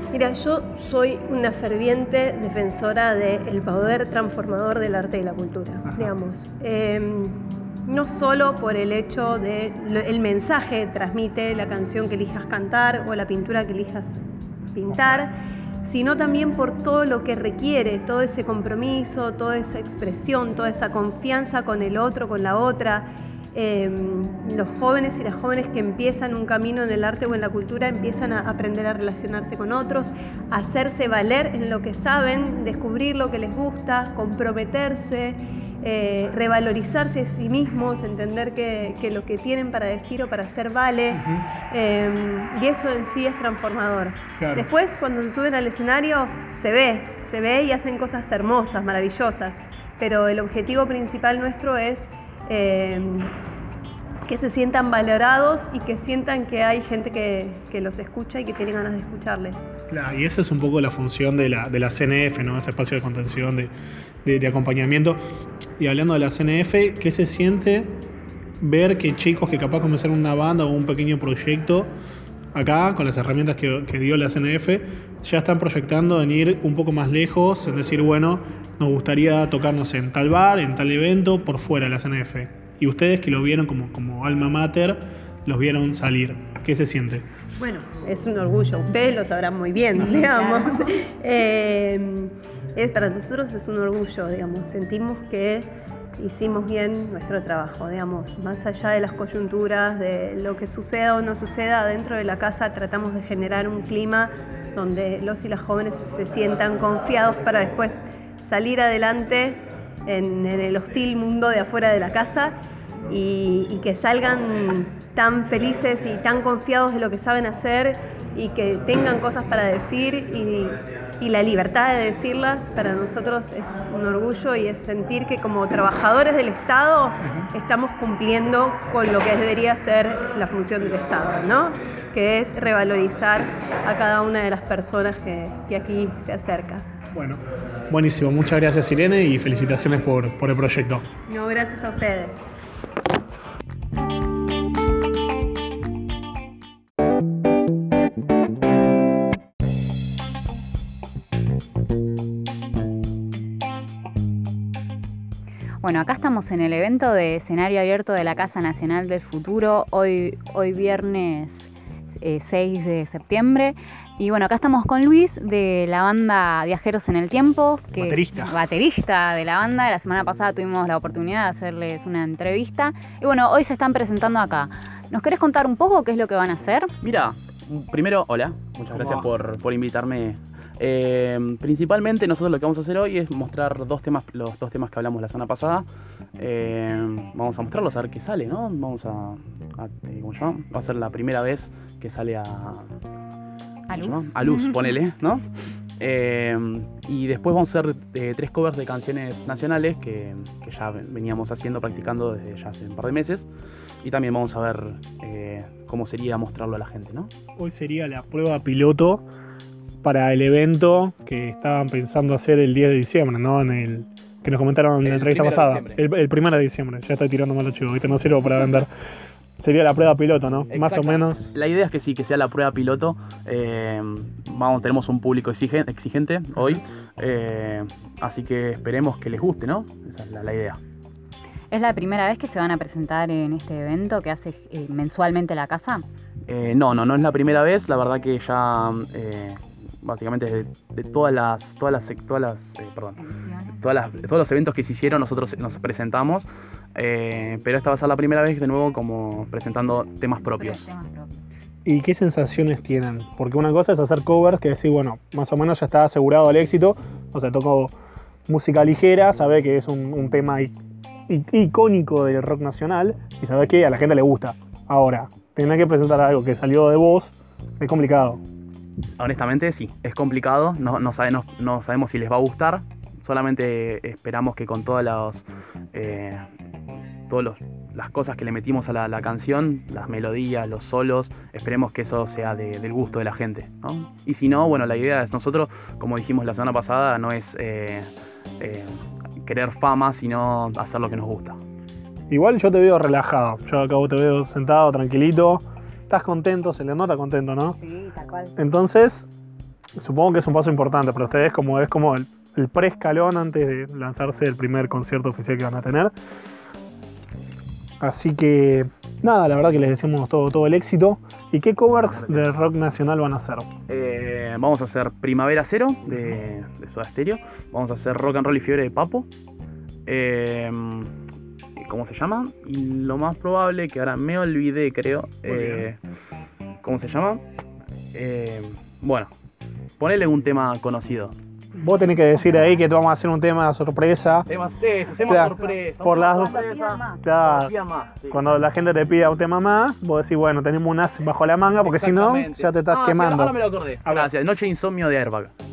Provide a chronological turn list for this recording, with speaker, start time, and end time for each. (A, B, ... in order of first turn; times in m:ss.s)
0:00.1-0:14.2 A
0:14.7-0:15.3 A
0:14.9-0:15.2 B
0:15.9-0:53.3 A
0:41.1-0:41.4 B
0:44.4-0:44.7 B
0:54.2-0:59.6 A
0:59.9-1:03.7 B
1:04.2-1:05.2 B
1:05.8-1:08.0 B
1:08.6-1:11.9 B
1:12.5-1:27.3 B
1:27.6-1:52.5 A
1:30.0-1:30.9 C
1:53.1-2:16.8 A
2:07.2-2:07.5 B
2:17.1-2:21.1 B
2:21.3-2:22.4 A
2:35.8-2:41.6 C
2:42.2-2:56.9 C
2:48.0-2:48.6 B
2:57.0-3:12.9 D
2:58.9-2:59.3 B
3:13.9-3:14.8 C
3:13.9-3:15.4 D
3:16.0-3:23.5 D
3:24.0-3:27.3 D
3:27.6-3:29.2 B
3:30.0-3:38.9 B
3:35.0-3:36.0 D
3:39.6-3:41.5 B
3:40.7-3:50.8 D
3:51.7-3:56.1 C
3:56.5-4:03.2 D
4:03.2-4:03.9 C
4:03.8-4:10.9 D
4:10.5-4:11.4 C
4:11.8-4:17.9 B
4:18.5-4:20.8 B
4:21.3-4:28.4 B
4:29.2-4:36.4 D
4:37.3-4:51.6 D
4:52.3-4:57.8 B
4:57.8-4:58.5 C
4:58.6-4:59.3 B
5:00.0-5:06.1 B
5:08.0-5:13.7 B
5:12.0-5:12.5 D
5:13.9-5:19.3 D
5:16.1-5:16.4 B
5:20.0-5:21.1 D
5:21.8-5:26.0 D
5:25.4-5:25.9 B
5:26.8-5:27.4 D
5:28.1-5:29.3 D
5:30.0-5:31.3 D
5:31.8-5:34.5 B
5:34.4-5:38.4 D
5:35.2-5:37.2 C
5:35.3-5:36.6 B
5:37.2-5:37.7 B
5:38.3-5:44.3 B
5:41.8-5:45.5 D